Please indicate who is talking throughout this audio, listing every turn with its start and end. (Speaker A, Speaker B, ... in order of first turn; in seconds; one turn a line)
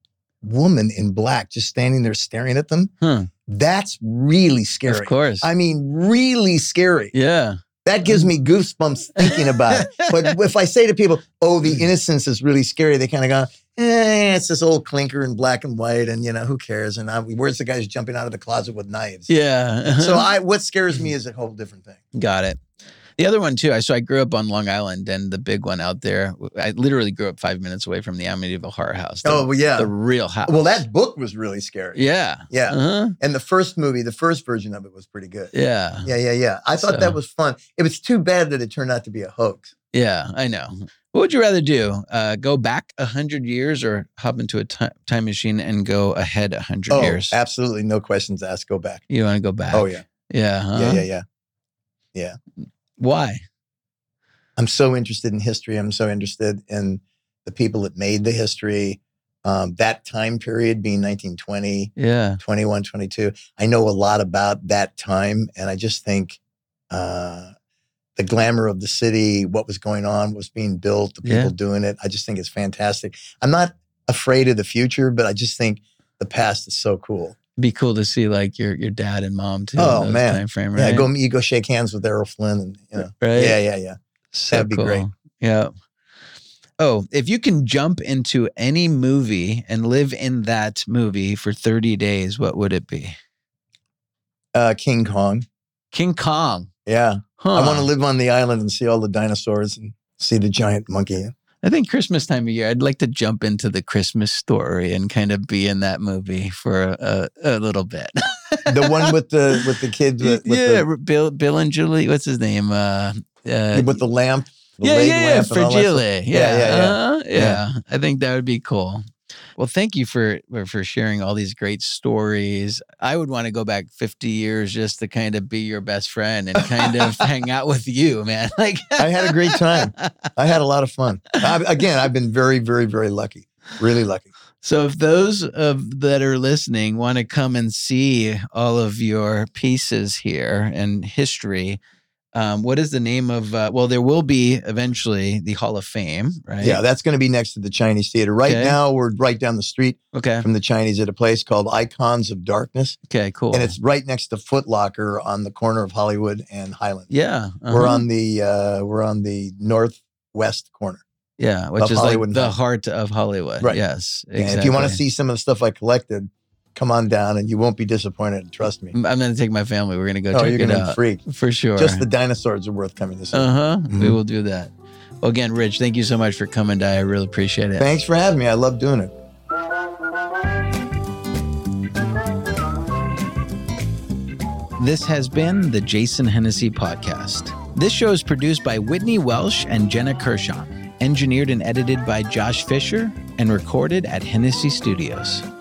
Speaker A: 0.4-2.9
Speaker B: 3.0-3.3
Speaker A: 3.5-7.1
Speaker B: 4.9-5.5
Speaker B: 7.1-8.3
Speaker A: 7.8-19.3
Speaker B: 9.2-10.3
Speaker B: 19.3-20.3
Speaker A: 19.8-22.0
Speaker B: 22.1-22.6
Speaker B: 23.2-30.7
Speaker A: 29.2-29.9
Speaker A: 30.4-35.5
Speaker B: 31.9-33.1
Speaker B: 35.5-36.1
Speaker A: 36.0-39.7
Speaker B: 36.8-37.1
Speaker B: 39.9-47.4
Speaker A: 46.9-49.0
Speaker B: 49.1-51.0
Speaker A: 49.7-50.0
Speaker A: 50.7-51.2
Speaker B: 53.0-53.4
Speaker A: 54.6-66.4
Speaker B: 62.0-62.4
Speaker A: 66.9-67.5
Speaker A: 68.2-77.3
Speaker B: 71.2-71.5
Speaker B: 77.6-81.1
Speaker A: 79.8-84.0
Speaker B: 83.2-83.6
Speaker B: 84.3-85.7
Speaker A: 84.5-85.0
Speaker B: 86.8-93.1
Speaker A: 94.5-95.4
Speaker B: 95.9-96.7
Speaker A: 96.8-101.3
Speaker B: 97.4-97.9
Speaker B: 101.6-109.6
Speaker A: 108.7-110.8
Speaker B: 110.2-114.0
Speaker A: 113.7-117.6
Speaker B: 114.8-119.0
Speaker B: 119.5-129.8
Speaker A: 126.6-127.2
Speaker A: 129.0-134.3
Speaker B: 134.6-141.8
Speaker B: 142.3-146.8
Speaker A: 146.6-153.0
Speaker B: 148.4-148.8
Speaker B: 150.1-150.4
Speaker B: 153.1-153.7
Speaker A: 153.5-157.1
Speaker B: 157.1-158.0
Speaker A: 157.7-161.0
Speaker B: 161.4-165.0
Speaker A: 161.8-162.5
Speaker A: 164.3-168.9
Speaker B: 168.9-172.0
Speaker A: 170.3-171.2
Speaker A: 171.8-174.2
Speaker B: 173.3-177.9
Speaker A: 177.8-179.1
Speaker B: 184.8-195.4